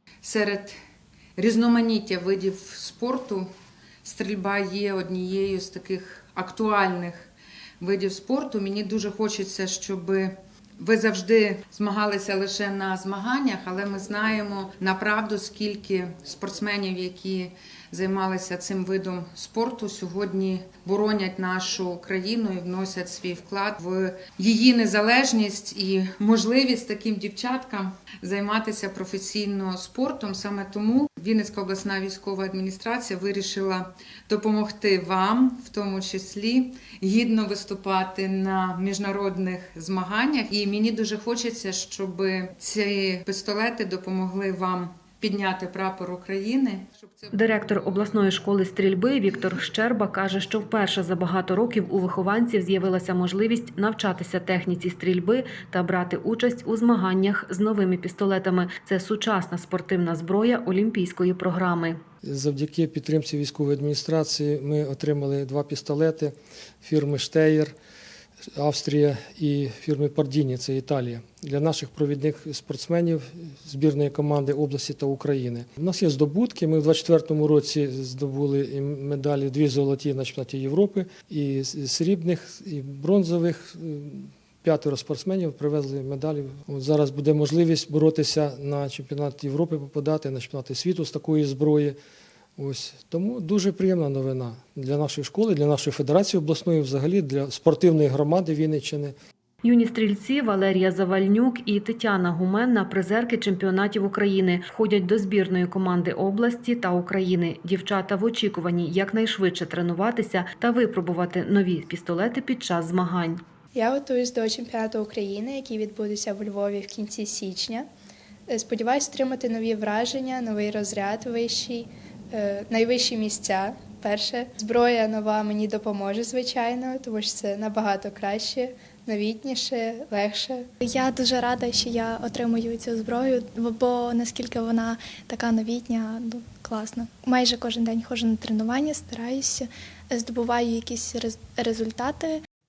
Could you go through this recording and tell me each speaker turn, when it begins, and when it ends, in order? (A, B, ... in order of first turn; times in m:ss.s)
0:00.2-0:00.8 A
0:01.4-0:03.5 A
0:04.0-0:07.3 A
0:07.8-0:48.2 A
0:47.3-1:02.0 B
1:02.2-1:07.7 C
1:08.6-1:32.0 C
1:32.6-1:39.1 C
1:39.6-1:53.4 B
1:53.7-1:57.9 D
1:58.5-2:10.7 D
2:10.8-2:22.4 E